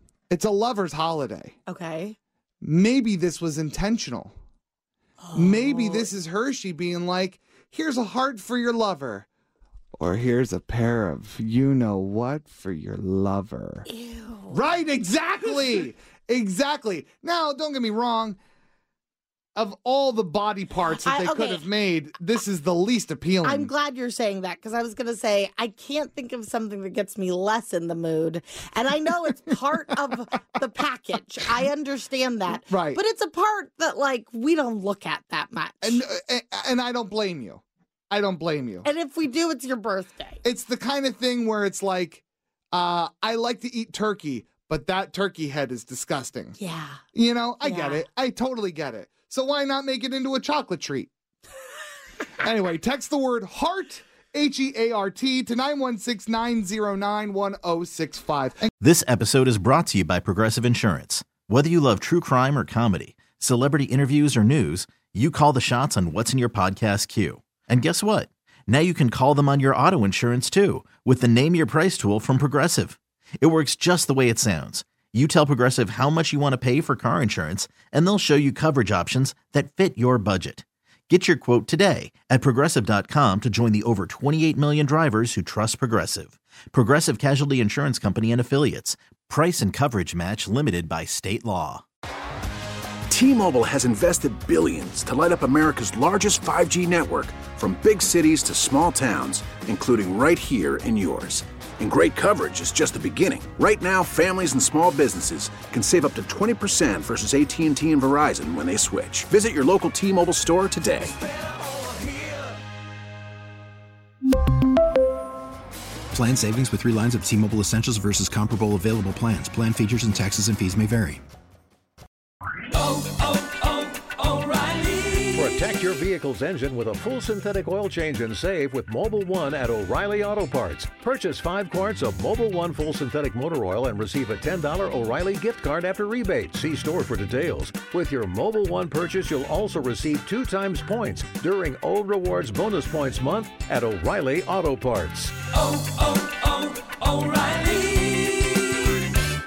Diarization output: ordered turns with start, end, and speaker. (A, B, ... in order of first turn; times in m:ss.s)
0:00.3-0:01.5 A
0:01.7-0:02.2 B
0:02.6-0:04.3 A
0:05.2-0:06.1 B
0:05.3-0:09.2 A
0:10.0-0:13.8 A
0:13.9-0:14.6 B
0:14.5-0:18.4 A
0:19.6-0:23.7 A
0:20.8-0:21.6 B
0:23.4-0:36.0 B
0:32.7-0:33.0 A
0:35.8-0:38.9 A
0:38.8-0:40.4 B
0:40.4-0:46.6 A
0:46.6-0:47.0 B
0:47.1-0:51.1 A
0:47.6-0:48.0 B
0:52.4-0:58.7 A
0:58.8-1:31.8 C
1:33.1-1:51.2 D
1:56.1-2:01.2 E
2:02.8-2:05.5 F
2:05.3-2:25.4 G
2:25.6-2:28.7 F